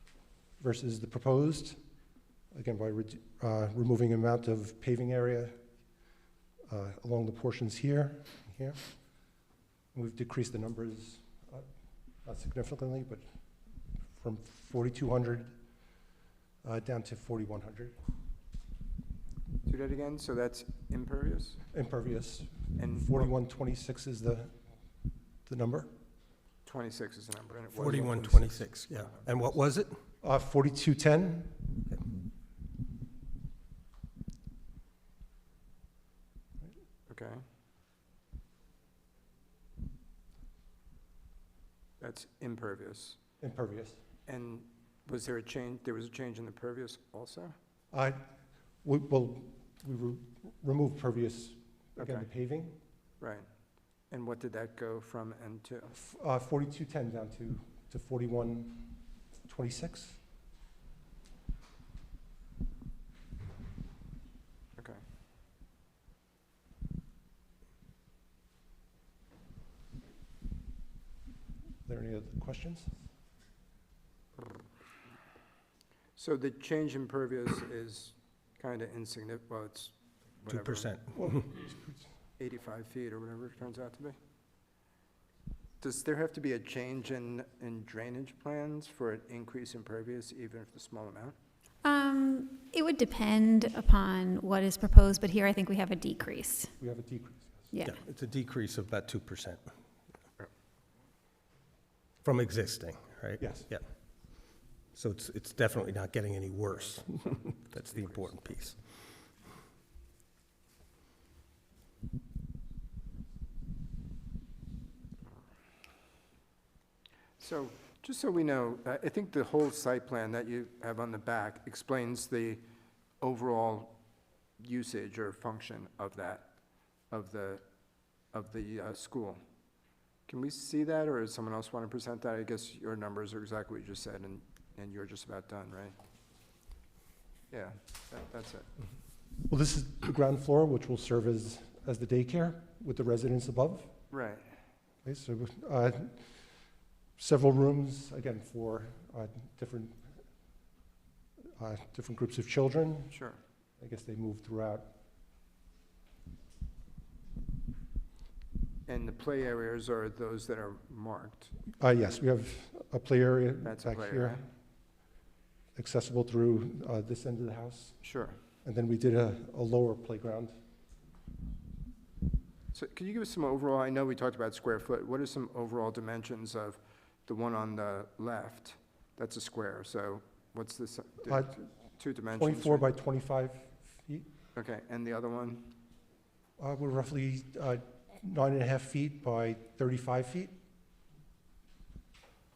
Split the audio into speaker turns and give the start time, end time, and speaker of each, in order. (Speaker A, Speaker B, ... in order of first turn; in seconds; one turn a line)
Speaker A: 0.6-1.8
Speaker A: 2.5-5.5
Speaker A: 6.7-8.8
Speaker A: 9.9-11.7
Speaker A: 12.2-13.2
Speaker A: 14.1-15.5
Speaker A: 16.6-17.9
Speaker B: 19.7-21.6
Speaker A: 21.7-24.5
Speaker B: 22.8-23.3
Speaker A: 25.5-25.9
Speaker B: 26.6-29.2
Speaker C: 27.7-30.0
Speaker A: 30.2-31.6
Speaker B: 37.1-37.4
Speaker B: 42.0-43.2
Speaker A: 43.4-44.0
Speaker B: 44.3-47.5
Speaker A: 47.9-48.2
Speaker A: 48.8-52.8
Speaker B: 52.0-52.3
Speaker B: 53.2-53.5
Speaker B: 54.1-56.0
Speaker A: 56.0-58.9
Speaker A: 59.5-60.2
Speaker A: 71.8-72.9
Speaker B: 76.2-80.9
Speaker C: 80.5-81.5
Speaker A: 81.3-81.7
Speaker B: 82.4-84.2
Speaker B: 85.8-91.3
Speaker D: 91.8-96.7
Speaker A: 96.8-97.7
Speaker D: 97.7-98.0
Speaker C: 97.8-99.7
Speaker C: 102.2-103.8
Speaker A: 103.4-103.7
Speaker C: 104.9-108.8
Speaker B: 107.7-108.5
Speaker B: 117.4-122.6
Speaker B: 123.2-124.0
Speaker B: 124.6-126.5
Speaker B: 127.1-127.6
Speaker B: 128.3-129.4
Speaker B: 130.3-136.0
Speaker B: 137.5-138.7
Speaker A: 139.5-143.9
Speaker B: 144.1-144.5
Speaker A: 145.0-146.2
Speaker A: 147.2-150.0
Speaker A: 151.6-153.2
Speaker B: 153.1-153.4
Speaker A: 153.8-154.9
Speaker B: 158.9-161.5
Speaker A: 161.8-164.4
Speaker B: 163.6-164.4
Speaker A: 165.8-168.0
Speaker B: 168.0-168.3
Speaker A: 168.6-170.5
Speaker B: 172.7-182.9
Speaker A: 181.2-181.5
Speaker A: 182.4-184.3
Speaker B: 184.6-185.7
Speaker A: 186.6-190.5